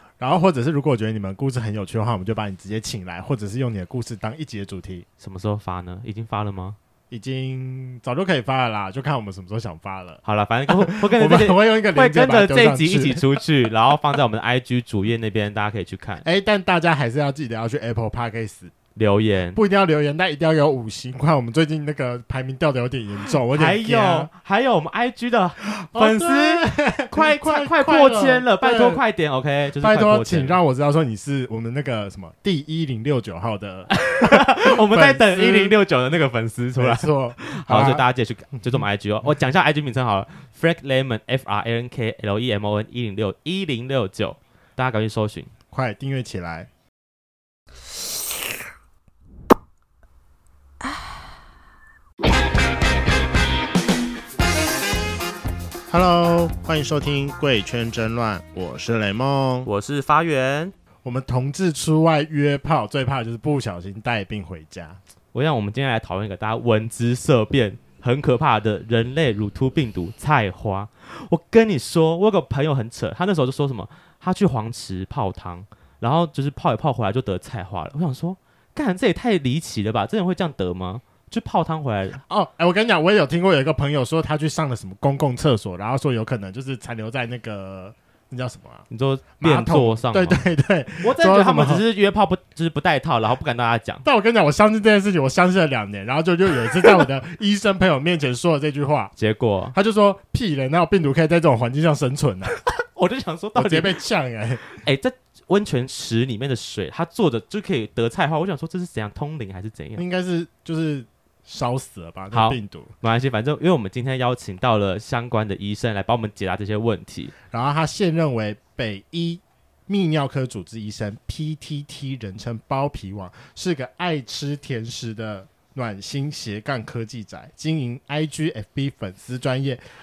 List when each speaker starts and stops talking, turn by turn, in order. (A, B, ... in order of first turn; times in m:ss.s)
0:00.2-0:05.0 A
0:05.2-0:06.8 B
0:07.1-0:10.2 A
0:10.2-0:16.2 B
0:10.8-0:13.2 A
0:16.2-0:18.7 A
0:19.0-0:19.6 B
0:19.5-0:24.3 A
0:23.5-0:30.6 B
0:25.8-0:29.0 A
0:29.8-0:35.7 A
0:33.9-0:45.5 B
0:36.8-0:38.0 A
0:45.7-0:46.7 A
0:55.9-0:59.7 A
0:59.6-1:00.7 B
1:01.0-1:05.0 A
1:05.3-1:22.2 B
1:22.3-1:28.8 A
1:28.9-1:30.4 B
1:29.4-1:31.8 A
1:31.0-1:34.0 B
1:34.0-1:39.1 A
1:39.2-1:39.7 B
1:39.7-1:42.6 A
1:42.9-1:44.0 B
1:43.5-1:44.6 A
1:44.7-1:50.0 B
1:50.0-1:52.9 A
1:52.3-1:57.3 B
1:57.5-2:09.8 A